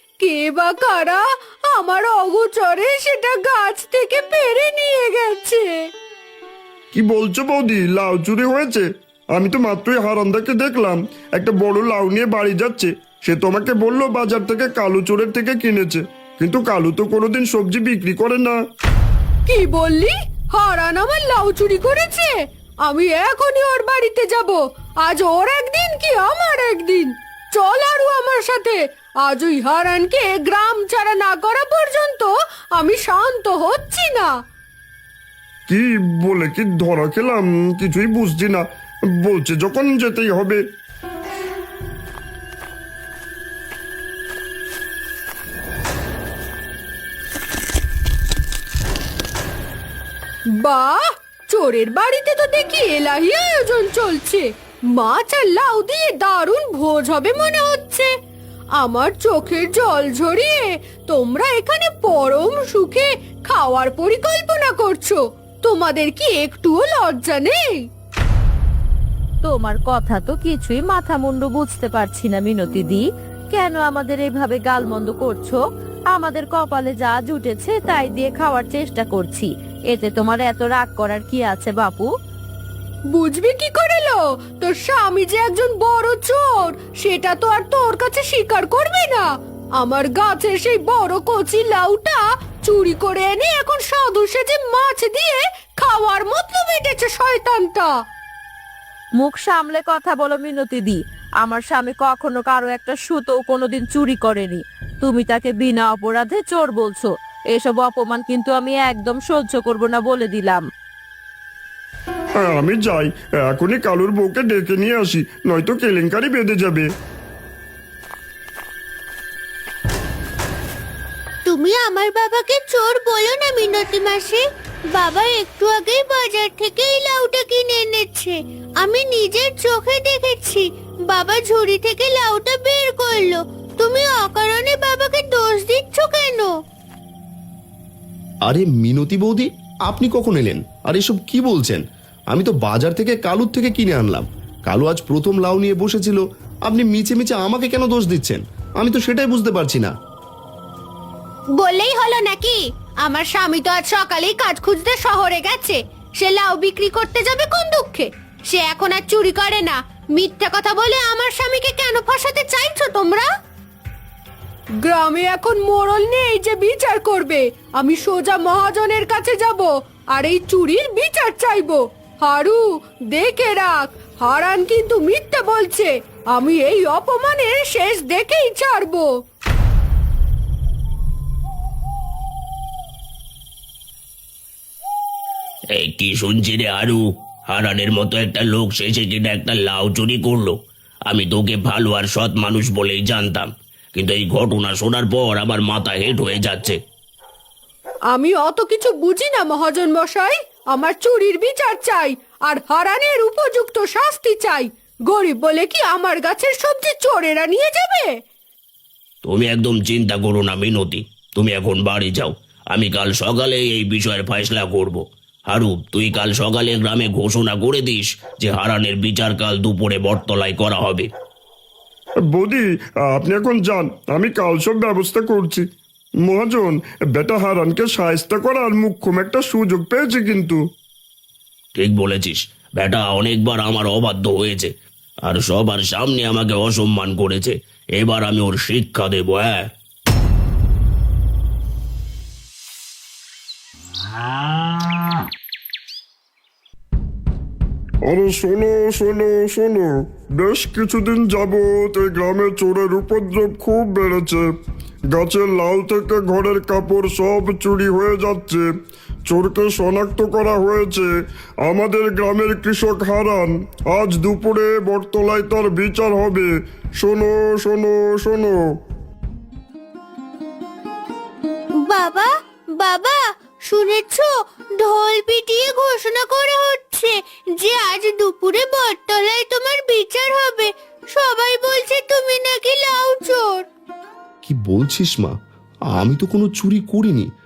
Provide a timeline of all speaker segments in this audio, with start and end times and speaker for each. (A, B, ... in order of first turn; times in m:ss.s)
0:00.2-0:05.7 A
0:06.9-0:18.6 B
0:19.5-0:22.3 A
0:22.9-0:34.3 A
0:35.7-0:40.6 B
0:50.6-0:54.4 A
0:55.0-0:58.1 A
0:58.8-1:07.6 A
1:09.4-1:15.6 C
1:16.1-1:22.1 C
1:23.2-1:29.2 A
1:29.8-1:37.9 A
1:39.2-1:50.6 C
1:52.4-1:56.9 B
2:01.5-2:04.4 D
2:05.0-2:16.5 D
2:18.5-2:29.9 E
2:31.6-2:43.2 D
2:44.8-2:59.1 A
3:05.8-3:16.8 F
3:18.1-3:28.1 A
3:29.2-3:41.1 F
3:42.3-3:45.7 B
3:46.2-3:50.6 B
3:51.7-3:54.7 F
3:55.2-3:59.7 F
4:08.0-4:14.5 B
4:15.1-4:18.7 B
4:19.3-4:21.1 B
4:21.6-4:28.6 B
4:31.9-4:43.6 D
4:44.4-4:45.3 E
4:45.9-4:47.3 E